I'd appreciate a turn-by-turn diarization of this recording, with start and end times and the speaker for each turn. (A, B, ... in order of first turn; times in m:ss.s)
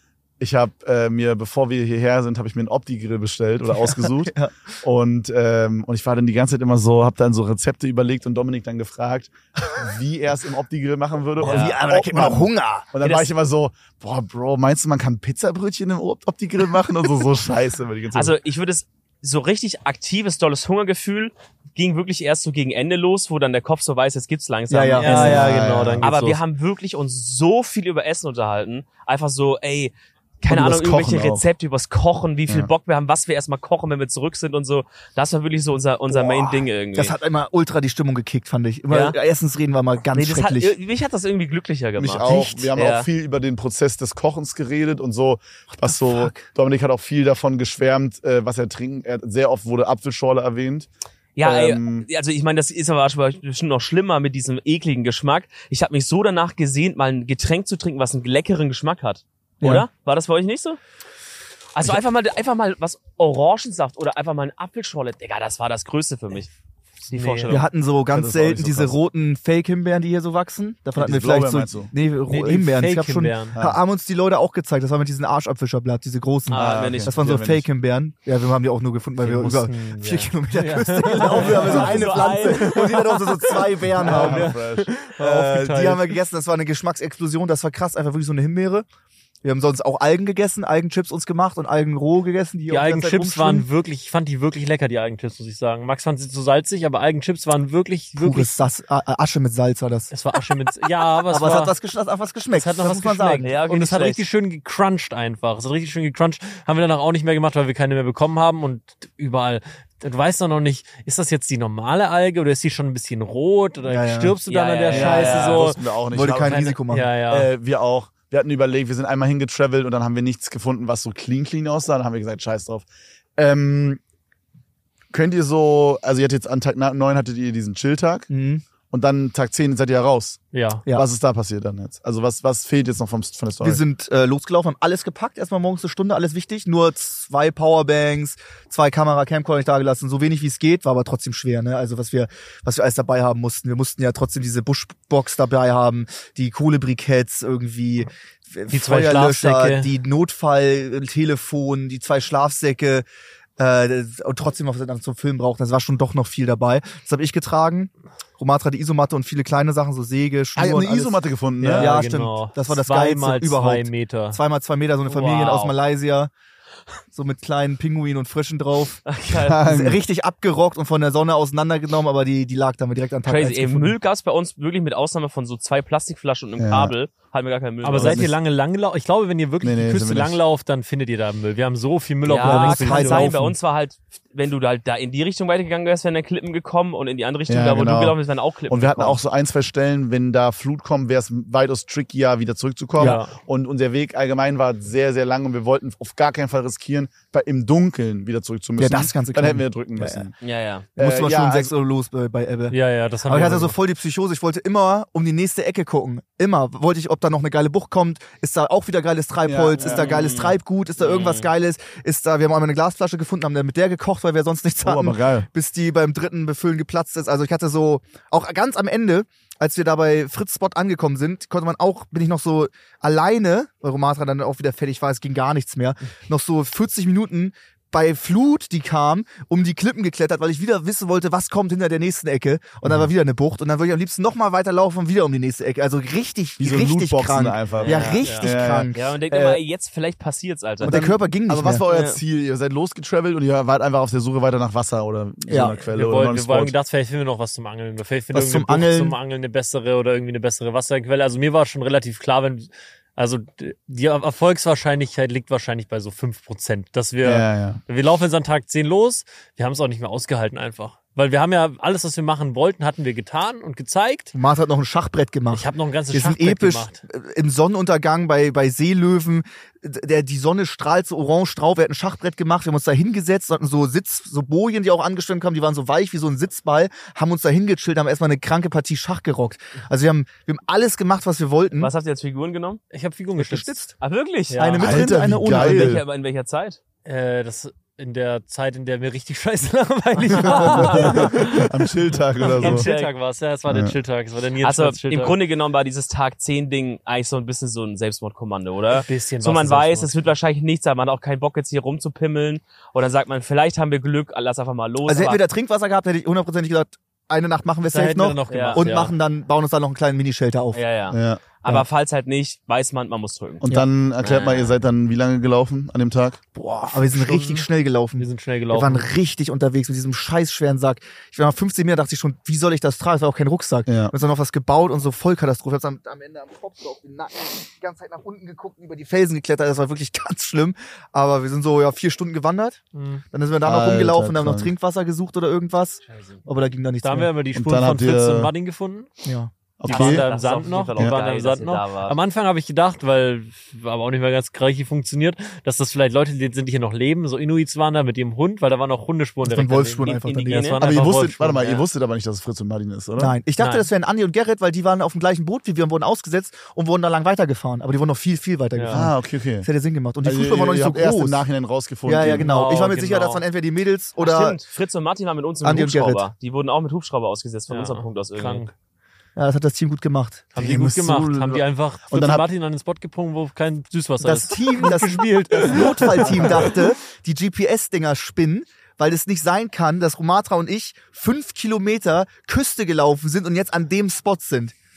0:00.4-0:18.4 A
0:03.8-0:04.5 B
0:11.4-0:12.9 B
0:11.4-0:11.8 C
0:13.0-0:13.3 C
0:18.1-0:37.1 C
0:24.7-0:25.4 B
0:25.0-0:26.4 D
0:25.1-0:26.1 A
0:30.5-0:31.5 A
0:36.1-0:40.8 B
0:38.9-0:39.2 C
0:40.1-0:43.1 C
0:42.0-0:50.9 A
0:42.3-0:42.7 B
0:45.8-0:46.4 B
0:51.4-1:00.8 C
0:51.4-0:52.1 A
0:59.6-0:59.9 B
1:01.8-1:06.5 C
1:07.1-1:07.7 C
1:07.1-1:07.6 D
1:07.5-1:24.6 B
1:08.1-1:09.0 A
1:11.0-1:11.9 A
1:12.3-1:13.6 D
1:13.6-1:13.8 A
1:16.5-1:17.1 C
1:16.5-1:17.7 A
1:19.2-1:23.0 D
1:21.2-1:23.6 C
1:21.4-1:22.0 A
1:24.0-1:24.9 A
1:24.0-1:26.2 D
1:25.2-1:28.8 B
1:29.4-1:33.7 B
1:32.7-1:38.5 D
1:38.2-1:40.1 B
1:40.1-1:41.7 D
1:41.3-1:43.5 B
1:42.5-1:57.5 D
1:43.4-1:44.2 C
1:53.8-1:54.4 B
1:54.5-1:55.7 C
1:54.9-1:56.7 A
1:56.1-1:57.1 B
1:57.3-2:02.9 A
2:03.4-2:04.0 A
2:05.1-2:08.3 A
2:08.3-2:08.6 B
2:08.9-2:13.8 A
2:10.5-2:10.8 D
2:13.6-2:33.1 B
2:28.7-2:29.9 D
2:33.6-2:46.3 B
2:40.6-2:41.9 A
2:41.6-2:44.4 D
2:45.1-2:45.7 C
2:47.1-2:49.1 B
2:49.1-2:49.6 C
2:49.3-2:50.0 A
2:49.6-2:54.0 B
2:53.3-2:58.3 C
2:56.6-2:56.9 A
2:57.8-3:03.5 D
2:58.0-2:58.3 A
2:59.6-3:00.4 A
3:02.2-3:09.2 C
3:02.4-3:03.6 B
3:07.5-3:08.2 A
3:08.7-3:20.3 A
3:13.0-3:13.2 B
3:13.0-3:13.3 D
3:18.8-3:20.3 B
3:20.4-3:20.9 C
3:21.0-3:21.7 A
3:21.0-3:59.6 B
3:22.7-3:23.8 D
3:29.4-3:30.1 A
3:29.8-3:31.5 C
3:34.8-3:35.5 A
3:52.8-3:53.1 A
3:56.6-3:58.9 A
3:57.8-3:58.3 C
3:58.0-3:58.5 D
3:58.9-4:01.0 C
4:00.8-4:01.8 B
4:00.8-4:06.8 A
4:01.9-4:02.2 C
4:05.5-4:05.8 B
4:05.8-4:24.3 D
4:08.3-4:09.2 B
4:17.2-4:17.8 A
4:24.3-4:41.9 B
4:25.5-4:27.0 D
4:41.8-4:42.8 C
4:42.9-4:43.8 D
4:43.4-4:44.0 B
4:44.0-4:44.7 C
4:44.5-4:45.0 D
4:44.5-4:46.0 B
4:44.8-4:46.0 A
4:45.5-4:46.8 C
4:47.0-4:51.7 D
4:50.2-4:51.3 C
4:50.4-4:52.9 A
4:52.5-4:55.4 D
4:52.5-4:53.1 C
4:53.7-4:54.0 A
4:54.6-5:05.4 C
4:58.9-5:00.1 D
5:05.1-5:10.8 B
5:07.9-5:09.2 D
5:08.5-5:08.9 C
5:10.7-5:13.6 C
5:11.1-5:11.4 A
5:13.6-5:16.4 A
5:14.2-5:14.8 C
5:16.6-5:32.8 B
5:17.1-5:17.7 D
5:18.2-5:19.1 D
5:23.9-5:24.1 A
5:32.9-5:33.2 D
5:33.3-5:37.3 B
5:33.6-5:34.7 A
5:36.0-5:36.4 C
5:37.0-5:39.1 D
5:37.5-5:38.5 A
5:39.2-5:39.5 B
5:39.8-5:40.2 A
5:39.9-5:51.6 D
5:39.9-5:42.2 C
5:49.4-5:50.8 B
5:50.0-5:50.8 C
5:50.8-5:53.4 A
5:51.6-5:51.8 C
5:53.2-6:01.4 B
5:53.6-5:53.9 D
5:58.8-5:59.0 D
5:58.9-5:59.7 A
6:00.2-6:02.5 A
6:02.1-6:04.6 B
6:02.3-6:03.4 D
6:04.2-6:08.6 C
6:05.6-6:06.3 B
6:07.7-6:08.7 D
6:09.4-6:10.5 B
6:10.5-6:16.8 D
6:10.6-6:12.5 A
6:14.2-6:24.7 B